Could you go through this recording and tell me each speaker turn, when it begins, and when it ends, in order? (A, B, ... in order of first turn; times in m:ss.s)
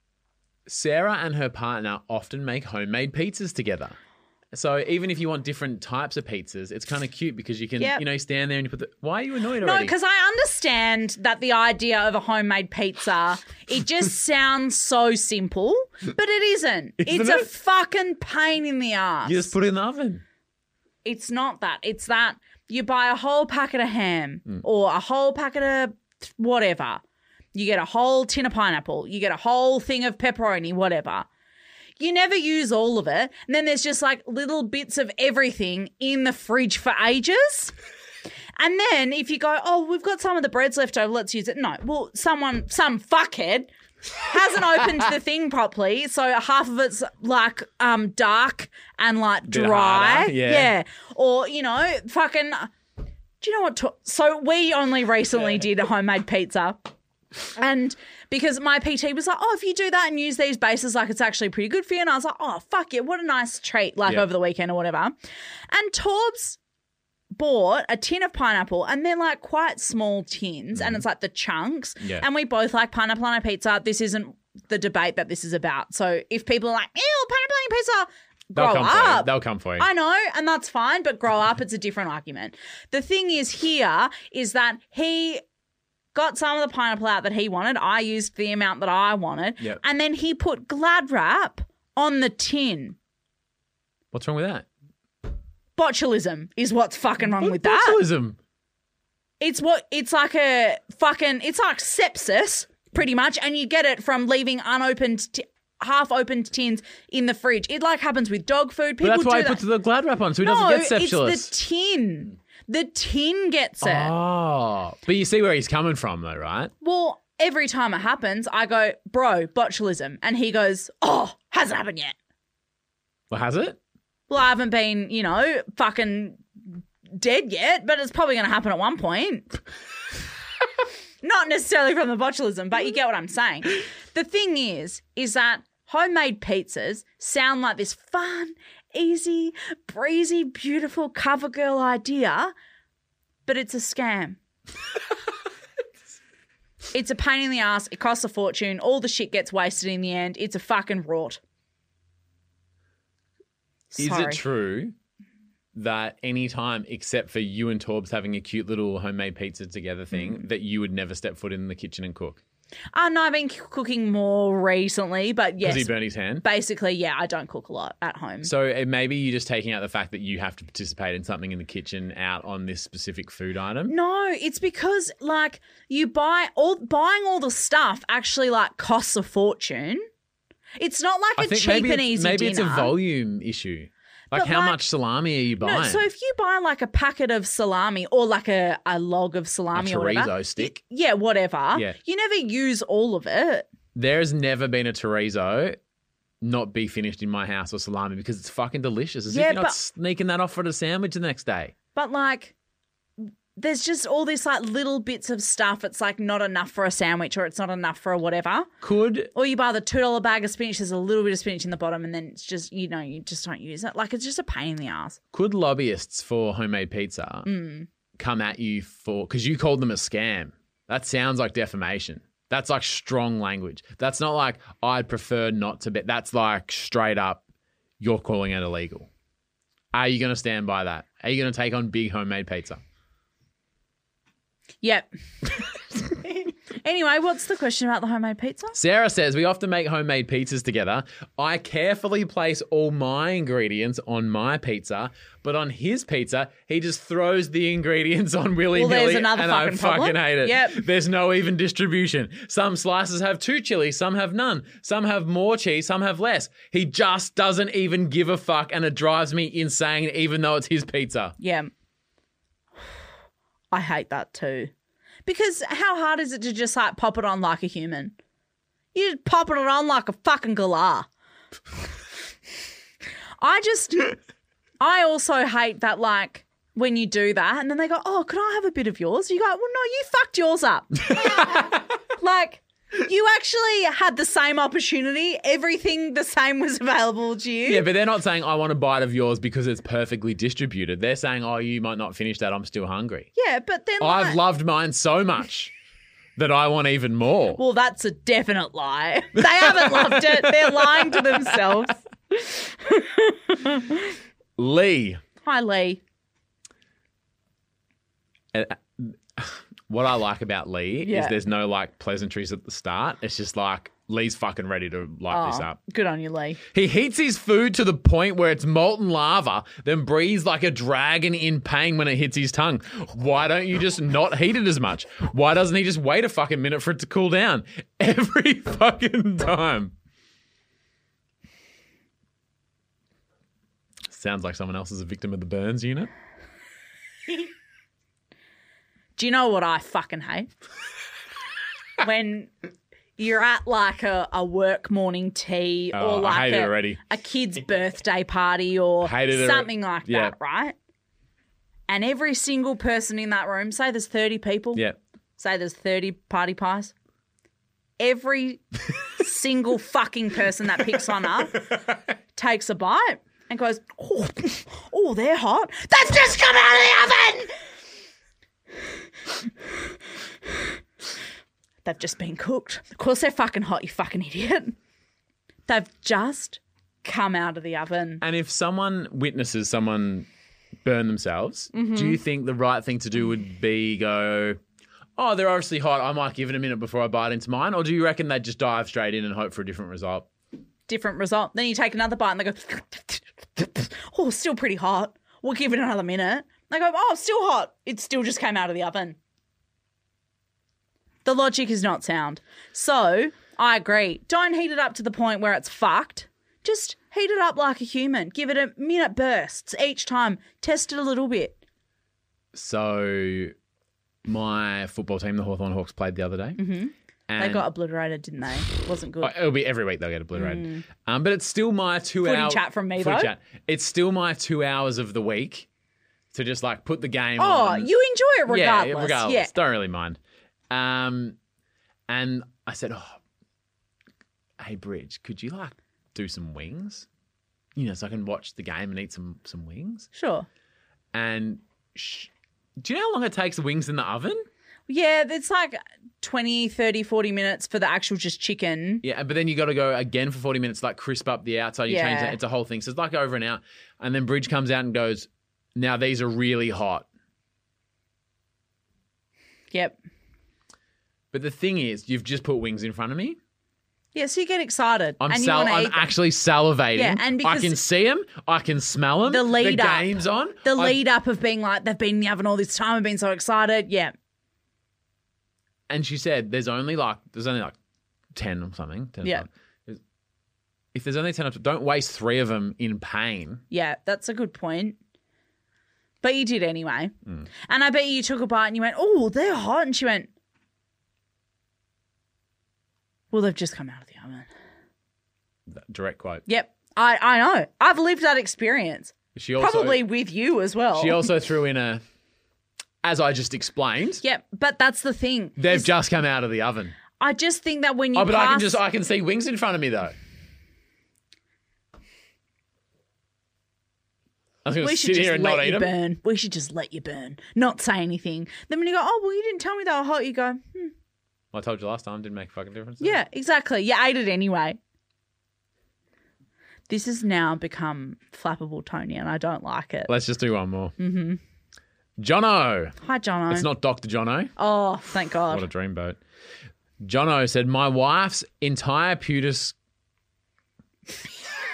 0:00.7-0:04.0 A
0:04.5-0:09.9 A
0:09.6-0:19.5 B
0:17.0-0:17.5 A
0:19.3-0:20.2 A
0:21.0-0:27.0 B
0:27.5-0:31.3 B
0:32.0-0:37.7 B
0:38.6-0:52.7 B
0:49.5-0:50.7 A
0:53.4-0:56.9 B
0:57.6-1:05.1 B
1:05.7-1:06.6 B
1:07.3-1:25.4 B
1:10.8-1:11.0 A
1:12.0-1:12.3 A
1:18.5-1:19.9 A
1:26.1-1:33.0 B
1:34.1-1:34.7 A
1:35.8-1:38.0 B
1:37.2-1:38.4 A
1:39.4-1:49.6 B
1:49.0-1:51.5 A
1:50.4-1:54.1 B
1:53.8-1:56.7 A
1:56.8-2:02.1 B
2:03.3-2:03.8 A
2:04.3-2:06.4 B
2:07.2-2:09.5 B
2:11.2-2:22.5 B
2:23.5-2:24.4 B
2:26.9-2:31.4 B
2:33.9-2:34.4 B
2:34.0-2:34.9 A
2:35.8-2:42.4 A
2:42.9-2:48.5 B
2:45.6-2:46.4 A
2:48.4-2:53.9 A
2:53.9-3:00.1 B
3:00.8-3:02.9 B
3:01.4-3:06.0 A
3:04.3-3:04.8 B
3:05.6-3:13.7 B
3:09.7-3:10.8 A
3:14.0-3:15.8 A
3:16.4-3:21.7 A
3:19.3-3:19.8 B
3:22.0-3:22.5 B
3:23.2-3:28.7 B
3:28.8-3:29.3 A
3:29.3-3:35.2 B
3:35.3-3:37.5 A
3:37.5-3:37.9 B
3:38.2-3:47.4 A
3:48.0-3:49.1 A
3:49.9-3:52.8 A
3:54.8-3:58.8 B
3:58.8-4:21.4 A
4:08.7-4:10.8 B
4:21.4-4:21.7 B
4:23.7-4:24.7 B
4:25.3-4:28.1 B
4:28.9-4:31.1 B
4:33.4-4:34.2 B
4:34.8-4:47.9 B
4:41.2-4:41.7 A
4:47.7-4:53.3 A
4:53.4-4:54.4 B
4:54.0-4:55.7 A
4:56.4-4:57.6 A
4:57.6-5:04.1 B
4:59.4-5:01.6 A
5:04.6-5:05.2 A
5:05.4-5:06.0 B
5:08.5-5:15.8 A
5:11.0-5:11.4 B
5:15.3-5:16.6 B
5:16.7-5:29.9 A
5:34.1-5:36.1 A
5:39.2-5:40.5 B
5:42.0-5:42.5 B
5:43.2-5:50.7 B
5:45.9-5:47.0 A
5:49.0-5:50.3 A
5:51.9-5:54.8 B
5:55.4-5:56.9 B
5:58.0-6:01.7 B
6:02.4-6:07.5 B
6:11.8-6:14.8 B
6:15.7-6:18.2 B
6:18.2-6:20.3 A
6:20.8-6:24.6 A
6:21.7-6:22.2 B
6:25.2-6:30.3 A
6:30.9-6:39.2 B
6:41.2-6:51.6 B
6:52.5-6:53.5 A
6:54.3-6:56.6 A
6:56.6-6:59.4 B
6:57.3-6:57.7 A
6:59.2-7:05.7 A
7:00.3-7:00.8 B
7:02.2-7:03.3 B
7:06.3-7:07.9 A
7:07.4-7:09.5 B
7:08.5-7:10.2 A
7:10.7-7:11.4 A
7:12.1-7:13.2 A
7:14.6-7:17.1 A
7:17.8-7:20.1 A
7:20.1-7:20.5 B
7:21.1-7:24.4 A
7:24.9-7:29.0 B
7:29.0-7:37.1 A
7:31.9-7:32.4 B
7:39.7-7:40.0 B
7:41.3-7:43.4 A
7:44.1-7:46.1 B
7:45.2-7:51.0 A
7:47.0-7:47.8 B
7:49.3-7:54.1 B
7:55.9-7:57.7 A
7:58.4-8:00.0 A
8:00.9-8:03.6 A
8:03.7-8:05.0 B
8:06.2-8:07.1 B
8:07.7-8:10.3 B
8:13.3-8:14.5 B
8:15.7-8:16.4 A
8:16.5-8:21.3 B
8:19.4-8:20.0 A
8:21.0-8:22.0 A
8:23.0-8:24.2 A
8:24.2-8:25.9 B
8:25.6-8:27.0 A
8:27.2-8:28.8 B
8:28.2-8:30.2 A
8:34.6-8:35.9 A
8:34.8-8:40.9 B
8:41.5-8:43.2 A
8:43.0-8:44.8 B
8:46.9-8:50.1 B
8:50.1-8:51.0 A
8:51.0-8:51.4 B
8:52.2-8:53.0 A
8:53.0-8:53.7 B
8:53.5-8:54.5 A
8:54.6-8:55.7 B
8:55.5-8:56.2 A
8:57.0-8:59.8 A